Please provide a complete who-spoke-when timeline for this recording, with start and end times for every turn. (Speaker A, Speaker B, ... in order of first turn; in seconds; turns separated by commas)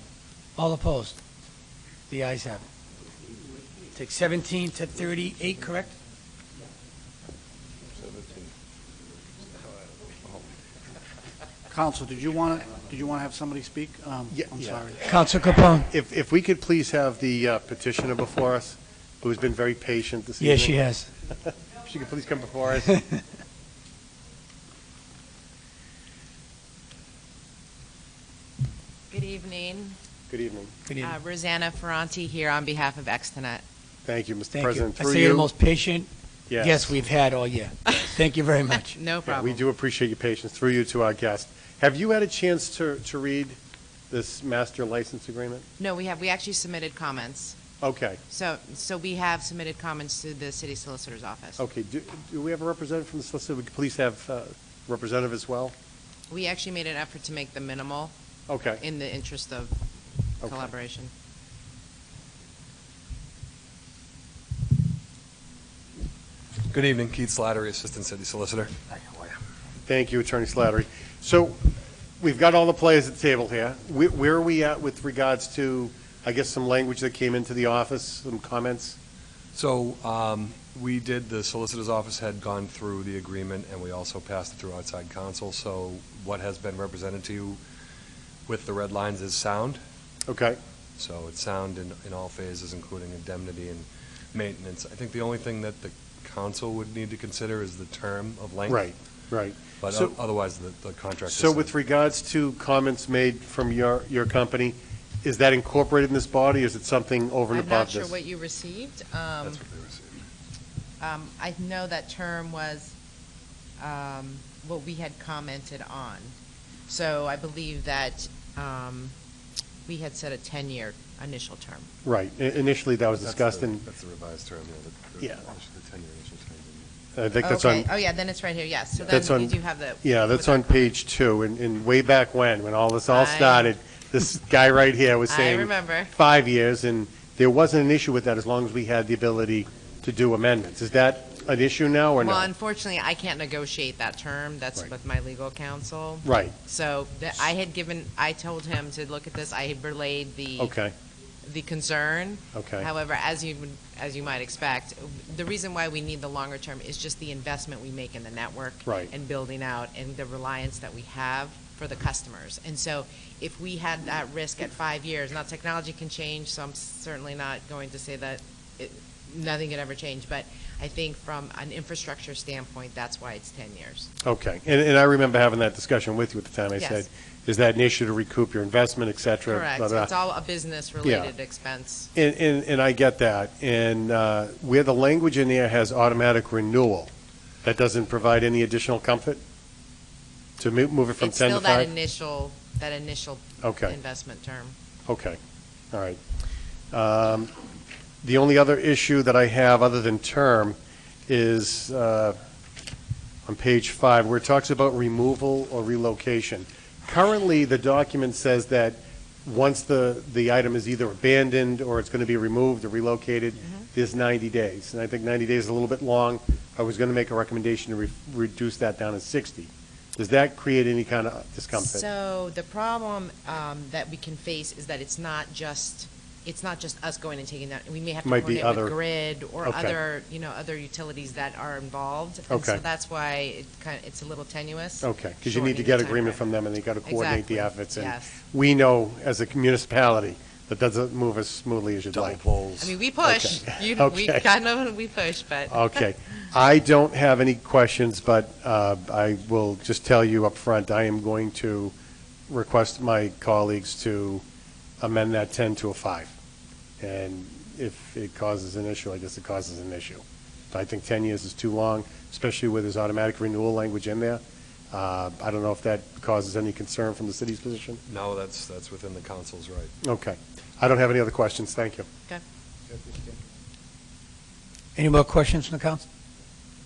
Speaker A: 0.6-1.2, Speaker A: 2.1-2.6, Speaker A: 3.9-6.0, Speaker B: 8.0-8.5, Speaker C: 11.7-15.0, Speaker D: 14.3-15.0, Speaker A: 15.0-15.9, Speaker D: 15.9-23.0, Speaker A: 20.4-21.1, Speaker E: 29.1-30.0, Speaker D: 30.3-30.8, Speaker A: 30.9-31.2, Speaker E: 31.0-33.6, Speaker D: 34.1-35.5, Speaker A: 34.5-39.0, Speaker D: 36.5-37.0, Speaker E: 38.9-39.7, Speaker D: 39.2-43.6, Speaker D: 44.1-45.6, Speaker E: 45.8-47.6, Speaker D: 47.8-48.2, Speaker E: 48.3-51.6, Speaker D: 51.6-55.7, Speaker E: 56.3-58.1, Speaker D: 58.5-58.8, Speaker E: 58.8-59.8, Speaker D: 60.4-60.7, Speaker E: 60.4-61.1, Speaker B: 66.7-69.3, Speaker D: 69.9-79.0, Speaker B: 79.5-87.6, Speaker B: 88.5-89.8, Speaker D: 90.3-90.6, Speaker B: 91.0-98.9, Speaker D: 98.7-100.1, Speaker B: 99.8-101.7, Speaker D: 101.3-108.2, Speaker E: 107.5-109.6, Speaker B: 109.4-110.2, Speaker E: 111.0-113.0, Speaker E: 113.8-116.3, Speaker E: 116.9-119.1, Speaker E: 119.9-121.9, Speaker D: 122.0-123.8, Speaker B: 123.2-126.9, Speaker D: 127.1-127.9, Speaker E: 127.4-130.9, Speaker D: 129.0-142.5, Speaker E: 133.1-133.7, Speaker E: 135.3-136.1, Speaker E: 142.2-150.7, Speaker D: 146.2-146.6, Speaker D: 150.6-150.9, Speaker E: 151.4-174.1, Speaker D: 152.5-152.9, Speaker D: 158.9-159.1, Speaker D: 174.2-180.1, Speaker E: 176.8-177.1, Speaker E: 179.5-182.1, Speaker D: 181.0-181.3, Speaker D: 182.2-187.1, Speaker D: 187.6-189.4, Speaker D: 190.6-191.9, Speaker E: 191.2-194.8, Speaker D: 193.6-194.0, Speaker D: 195.1-195.4, Speaker D: 195.9-196.2, Speaker D: 196.9-197.5, Speaker D: 198.2-200.8, Speaker D: 201.3-202.4, Speaker D: 203.4-222.1, Speaker E: 213.6-213.9, Speaker E: 221.7-236.4, Speaker D: 228.2-229.0, Speaker D: 229.6-230.0, Speaker D: 232.5-232.8, Speaker D: 235.0-242.4, Speaker E: 237.0-238.4, Speaker B: 242.1-243.0, Speaker E: 242.8-246.0, Speaker D: 243.2-244.5, Speaker D: 245.7-251.9, Speaker D: 252.5-254.4, Speaker D: 255.0-256.3, Speaker D: 257.0-268.0, Speaker B: 268.1-269.9, Speaker D: 270.0-272.1, Speaker A: 275.0-276.1